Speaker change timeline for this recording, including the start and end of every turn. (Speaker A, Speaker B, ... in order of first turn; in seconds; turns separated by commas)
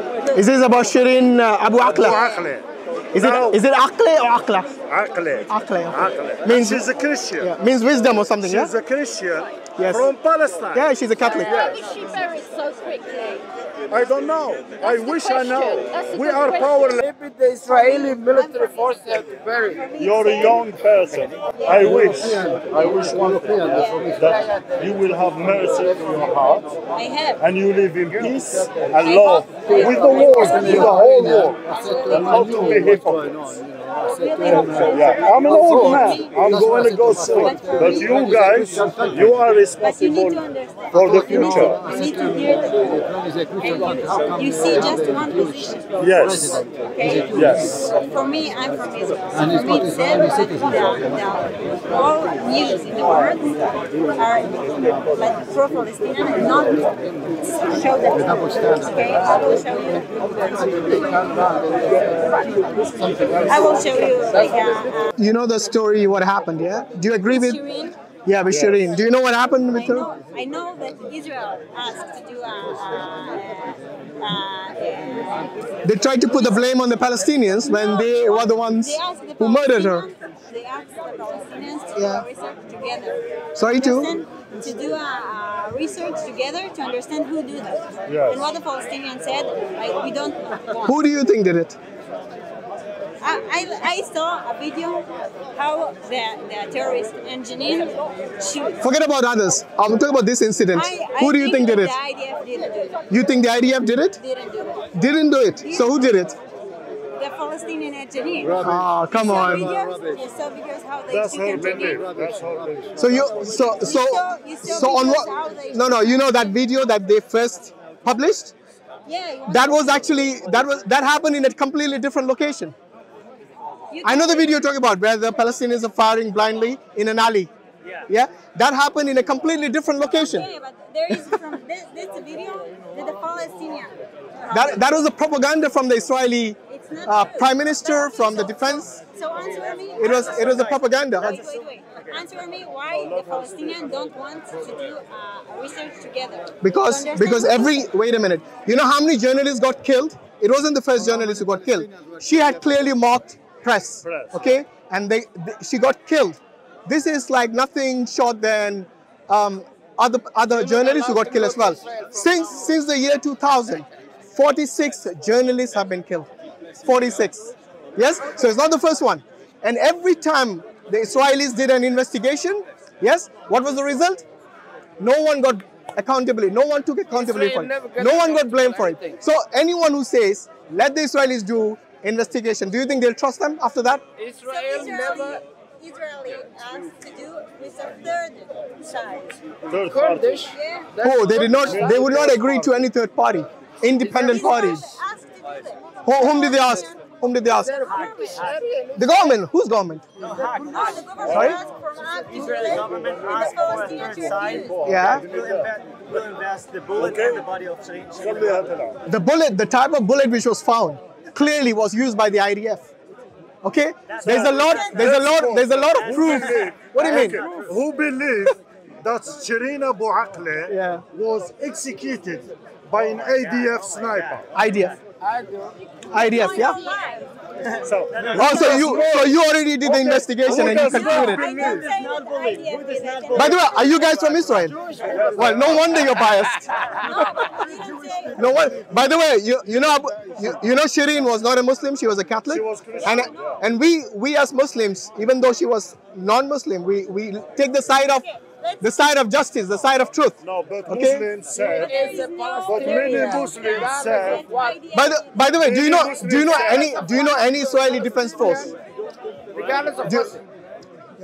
Speaker A: 0.3-2.3, Speaker B: 1.8-3.6, Speaker A: 3.1-4.8, Speaker B: 4.9-7.5, Speaker A: 5.5-6.9, Speaker A: 7.4-8.7, Speaker B: 8.4-11.9, Speaker A: 9.8-10.1, Speaker A: 10.7-11.7, Speaker C: 11.3-13.4, Speaker B: 13.9-17.0, Speaker C: 14.8-16.1, Speaker D: 15.6-19.9, Speaker C: 17.6-20.6, Speaker B: 19.9-26.7, Speaker C: 21.5-21.9, Speaker C: 23.7-24.4, Speaker C: 26.9-27.4, Speaker B: 27.4-33.5, Speaker C: 29.0-32.9, Speaker C: 34.0-38.5, Speaker B: 34.4-40.4, Speaker D: 36.8-37.1, Speaker D: 38.8-39.2, Speaker C: 39.8-45.9, Speaker B: 40.9-41.9, Speaker B: 46.0-46.7, Speaker C: 46.8-56.9, Speaker B: 47.3-47.8, Speaker C: 57.4-65.1, Speaker D: 63.1-63.4, Speaker A: 65.2-67.6, Speaker C: 67.3-68.0, Speaker A: 68.3-70.1, Speaker C: 69.7-76.7, Speaker A: 75.8-80.1, Speaker C: 77.7-83.2, Speaker A: 82.0-82.3, Speaker A: 83.5-84.1, Speaker C: 83.7-90.9, Speaker B: 88.1-88.4, Speaker A: 90.8-91.8, Speaker C: 93.2-98.8, Speaker A: 98.8-102.0, Speaker C: 100.7-103.0, Speaker A: 103.1-104.2, Speaker C: 104.2-104.9, Speaker A: 104.9-106.4, Speaker C: 105.6-106.0, Speaker C: 107.2-112.1, Speaker A: 108.6-109.7, Speaker B: 111.1-113.1, Speaker A: 113.0-118.5, Speaker C: 113.8-116.4, Speaker C: 119.1-120.0, Speaker A: 119.5-122.8, Speaker C: 123.9-124.6, Speaker A: 124.0-127.5, Speaker E: 127.8-128.1, Speaker A: 128.1-130.5, Speaker C: 130.2-134.8, Speaker A: 131.1-131.4, Speaker A: 134.5-139.0, Speaker C: 136.7-147.8, Speaker E: 139.5-142.2, Speaker A: 140.0-141.4, Speaker B: 143.0-143.8, Speaker A: 146.6-166.3, Speaker B: 154.0-154.5, Speaker D: 160.8-162.1, Speaker A: 166.8-174.2, Speaker A: 175.0-184.0, Speaker D: 177.2-179.2, Speaker D: 184.2-185.4, Speaker C: 184.3-189.4, Speaker B: 189.7-190.4, Speaker D: 189.9-191.8, Speaker C: 190.4-191.0, Speaker A: 191.0-194.9, Speaker B: 191.5-192.8, Speaker C: 194.1-197.0, Speaker A: 196.0-197.9, Speaker D: 197.6-199.2, Speaker C: 197.8-198.6, Speaker E: 197.9-198.6, Speaker A: 198.9-200.1, Speaker E: 200.2-201.3, Speaker C: 200.6-204.8, Speaker B: 201.2-201.6, Speaker A: 201.2-201.6, Speaker E: 202.3-208.6, Speaker B: 202.7-205.7, Speaker A: 204.8-205.3, Speaker B: 207.0-207.4, Speaker B: 208.2-209.0, Speaker A: 209.1-212.9, Speaker A: 213.6-217.4, Speaker E: 214.1-215.3, Speaker B: 214.2-224.5, Speaker C: 214.7-215.0, Speaker E: 215.9-217.8, Speaker A: 220.7-221.1, Speaker E: 223.3-225.0, Speaker A: 224.5-225.0, Speaker D: 225.3-225.8, Speaker A: 226.1-226.8, Speaker C: 226.1-227.3, Speaker E: 227.7-229.2, Speaker B: 227.8-231.9, Speaker A: 228.3-231.5, Speaker C: 230.7-233.8, Speaker E: 230.9-234.5, Speaker A: 233.3-234.8, Speaker D: 234.7-235.3, Speaker B: 235.0-236.1, Speaker A: 235.3-237.4, Speaker C: 236.8-238.5, Speaker A: 238.3-248.3, Speaker B: 242.5-243.6, Speaker C: 243.0-243.6, Speaker C: 248.1-249.0, Speaker A: 248.8-251.3, Speaker B: 250.4-252.1, Speaker C: 251.5-255.7, Speaker D: 251.8-254.8, Speaker B: 252.7-254.4, Speaker A: 254.9-258.7, Speaker B: 255.5-257.2, Speaker C: 256.3-256.9, Speaker B: 259.5-260.1, Speaker D: 259.6-260.4, Speaker A: 260.0-260.4